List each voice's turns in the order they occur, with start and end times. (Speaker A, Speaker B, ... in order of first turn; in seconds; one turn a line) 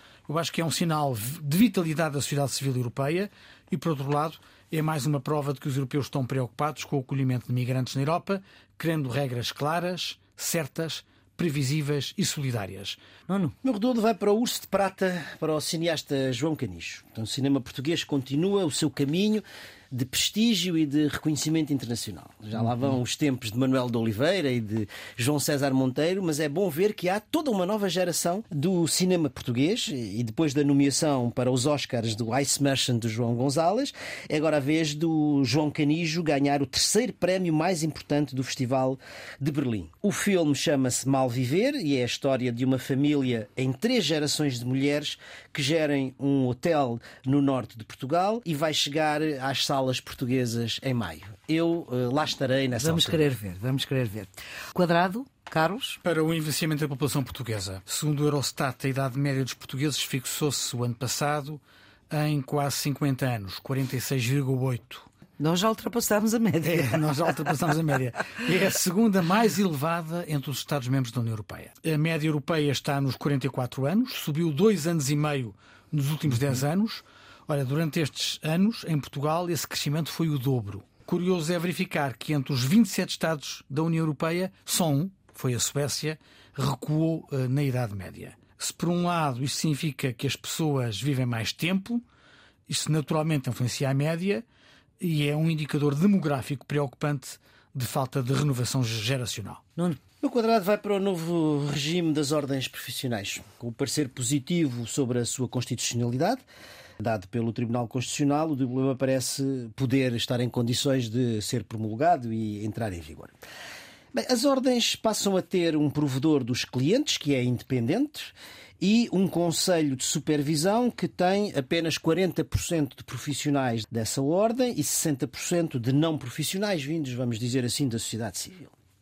Speaker A: 0.3-13.0
Speaker B: 13.3-13.5
Speaker C: 13.6-53.2
Speaker B: 52.8-56.0
Speaker A: 56.0-65.1
Speaker B: 65.4-67.5
Speaker A: 66.6-92.0
Speaker A: 92.7-94.4
Speaker A: 95.0-99.6
Speaker C: 100.2-106.4
Speaker C: 107.0-113.3
Speaker C: 114.1-128.7